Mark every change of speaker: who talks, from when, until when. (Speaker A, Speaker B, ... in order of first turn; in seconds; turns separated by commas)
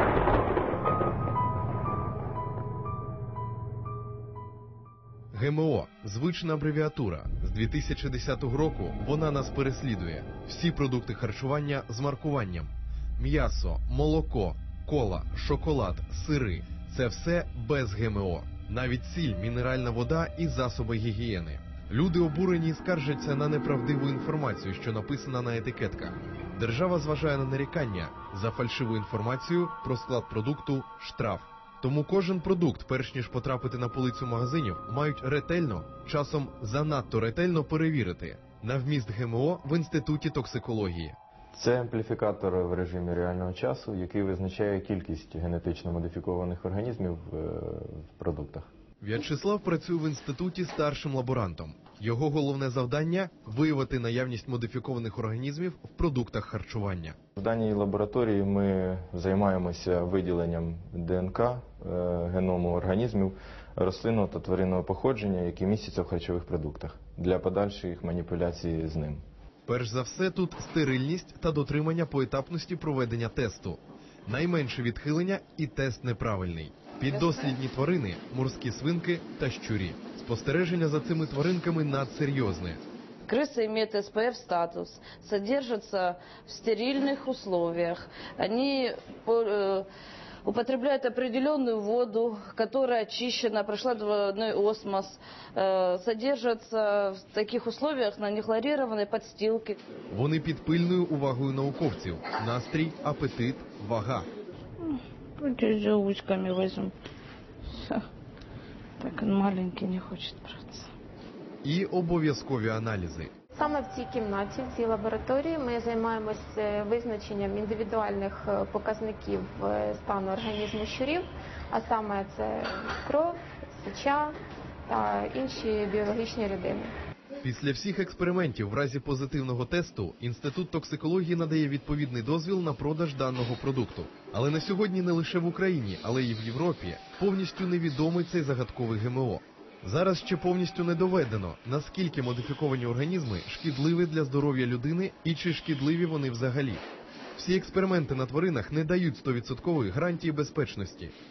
Speaker A: 5.3-41.2, Speaker B: 41.5-48.7, Speaker A: 49.0-57.2, Speaker B: 57.4-69.2, Speaker A: 69.7-82.8, Speaker C: 83.3-89.9, Speaker C: 90.4-99.8, Speaker A: 100.1-104.3, Speaker C: 104.9-106.9, Speaker C: 107.7-108.1, Speaker C: 109.0-110.9, Speaker A: 111.6-113.3, Speaker D: 113.5-124.3, Speaker D: 124.9-126.9, Speaker A: 127.4-146.8, Speaker A: 147.4-151.1